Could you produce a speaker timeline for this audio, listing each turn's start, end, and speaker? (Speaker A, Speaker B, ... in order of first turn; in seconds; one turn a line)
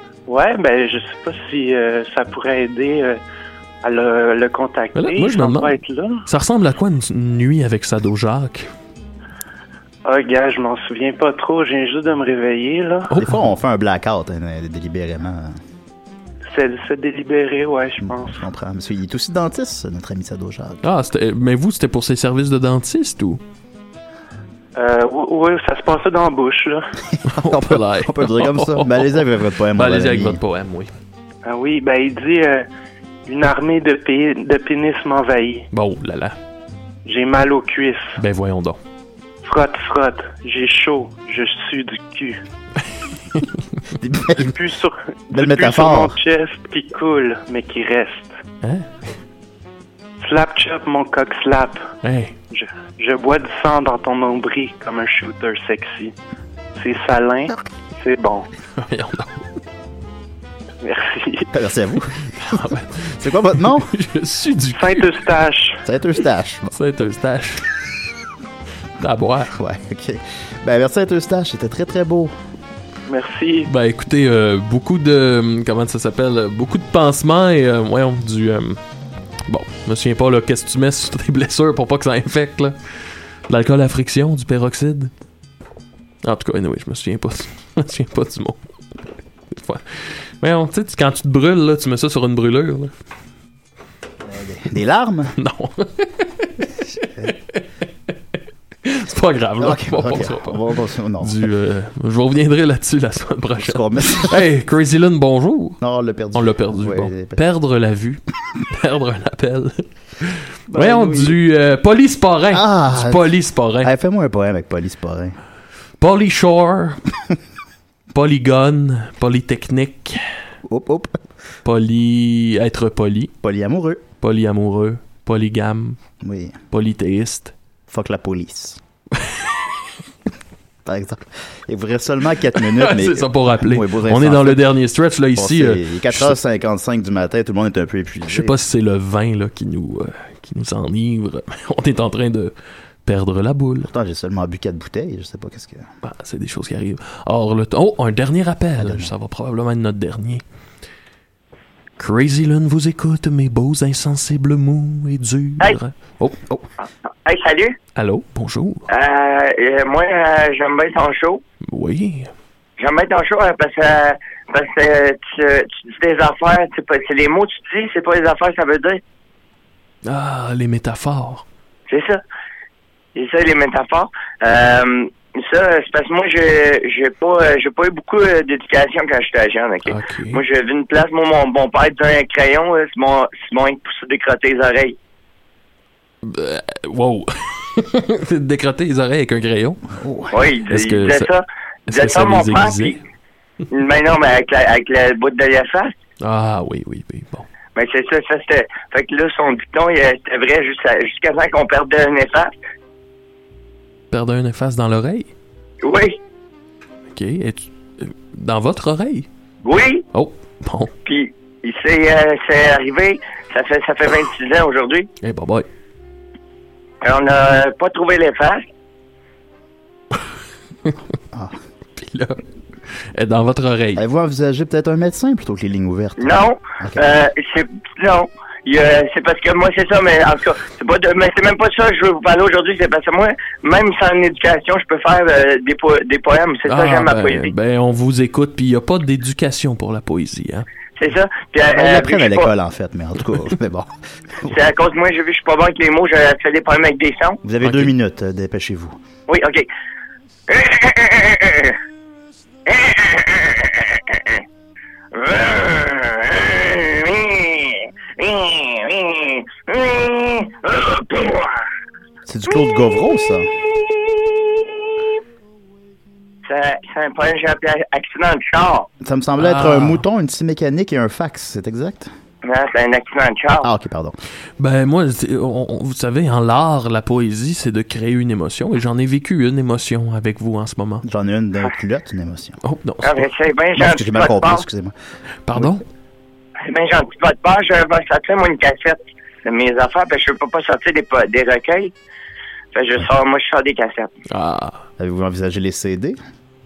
Speaker A: 0.3-3.2
Speaker A: 3.8-6.2
Speaker B: 4.9-8.7
Speaker A: 10.1-13.1
Speaker B: 13.1-13.5
Speaker C: 13.2-15.6
Speaker A: 16.5-18.4
Speaker C: 18.0-20.8
Speaker B: 20.8-23.4
Speaker A: 24.7-26.9
Speaker C: 27.1-30.4
Speaker B: 27.2-29.2
Speaker B: 29.8-30.9
Speaker A: 31.4-32.6
Speaker A: 33.2-35.7
Speaker B: 35.7-36.3
Speaker A: 37.0-38.2
Speaker B: 38.2-38.8
Speaker A: 39.4-42.4
Speaker B: 43.3-43.6
Speaker C: 44.0-44.6
Speaker A: 44.4-48.3
Speaker C: 45.3-46.1
Speaker B: 48.6-49.0
Speaker A: 50.2-51.9
Speaker B: 52.0-52.4
Speaker A: 52.5-56.1
Speaker A: 56.7-58.5
Speaker B: 58.8-59.4
Speaker A: 60.8-61.5
Speaker C: 61.5-62.6
Speaker B: 62.3-65.1
Speaker C: 63.2-63.9
Speaker A: 64.7-65.8
Speaker C: 65.8-66.8
Speaker B: 66.7-67.7
Speaker B: 69.0-69.5
Speaker C: 69.5-72.3
Speaker A: 73.1-73.7
Speaker B: 73.7-78.8
Speaker B: 79.5-82.8
Speaker B: 83.5-85.1
Speaker B: 86.2-88.6
Speaker B: 89.5-92.9
Speaker C: 94.2-95.3
Speaker B: 95.3-97.6
Speaker B: 98.8-100.6
Speaker C: 99.6-101.4
Speaker B: 101.2-105.8
Speaker C: 103.6-104.4
Speaker C: 105.8-107.4
Speaker B: 106.3-113.9
Speaker C: 110.7-111.4
Speaker C: 112.5-113.3
Speaker C: 113.8-115.4
Speaker B: 116.0-117.0
Speaker B: 118.1-120.2
Speaker C: 120.6-121.2
Speaker B: 121.6-123.3
Speaker C: 123.4-124.0
Speaker B: 124.2-126.0
Speaker C: 126.2-126.6
Speaker B: 126.7-127.5
Speaker C: 127.9-128.8
Speaker B: 129.2-129.5
Speaker C: 130.8-134.7
Speaker B: 132.5-136.4
Speaker C: 135.3-138.6
Speaker B: 138.3-142.5
Speaker B: 143.0-143.9
Speaker C: 143.8-145.9
Speaker B: 146.0-150.4
Speaker C: 148.8-149.1
Speaker B: 152.0-156.6
Speaker D: 157.2-157.7
Speaker B: 157.9-158.8
Speaker D: 158.9-161.4
Speaker B: 161.7-162.3
Speaker D: 162.8-169.0
Speaker B: 170.1-171.4
Speaker D: 171.9-172.2
Speaker D: 173.1-185.0
Speaker B: 179.8-180.4
Speaker B: 186.2-189.8
Speaker C: 189.9-190.4
Speaker D: 190.3-193.0
Speaker B: 190.7-191.3
Speaker B: 191.9-193.0
Speaker D: 193.7-195.9
Speaker B: 196.2-197.5
Speaker D: 197.8-202.5
Speaker B: 204.1-205.3
Speaker D: 205.8-206.2
Speaker B: 207.1-209.3
Speaker D: 209.6-210.1
Speaker B: 210.1-210.9
Speaker D: 211.0-215.1
Speaker B: 215.2-215.7
Speaker D: 217.0-218.6
Speaker C: 221.3-221.6
Speaker B: 222.0-224.0
Speaker C: 223.9-227.1
Speaker D: 226.2-237.5
Speaker B: 236.7-240.7
Speaker D: 241.0-242.5
Speaker C: 241.7-243.9
Speaker D: 244.5-247.4
Speaker C: 247.4-249.0
Speaker B: 247.6-247.9
Speaker D: 249.3-249.7
Speaker D: 250.5-251.8
Speaker D: 252.7-254.4
Speaker D: 255.1-261.6
Speaker C: 262.3-263.5
Speaker D: 263.9-264.3
Speaker D: 266.4-268.9
Speaker C: 269.0-272.1
Speaker B: 269.4-270.0
Speaker D: 272.4-273.7
Speaker C: 273.6-274.1
Speaker B: 274.6-281.0
Speaker C: 281.0-282.6
Speaker B: 282.6-283.3
Speaker D: 283.0-284.6
Speaker C: 283.8-284.9
Speaker B: 285.4-285.8
Speaker D: 286.7-291.9
Speaker D: 292.7-294.1
Speaker B: 294.3-294.8
Speaker C: 295.0-296.2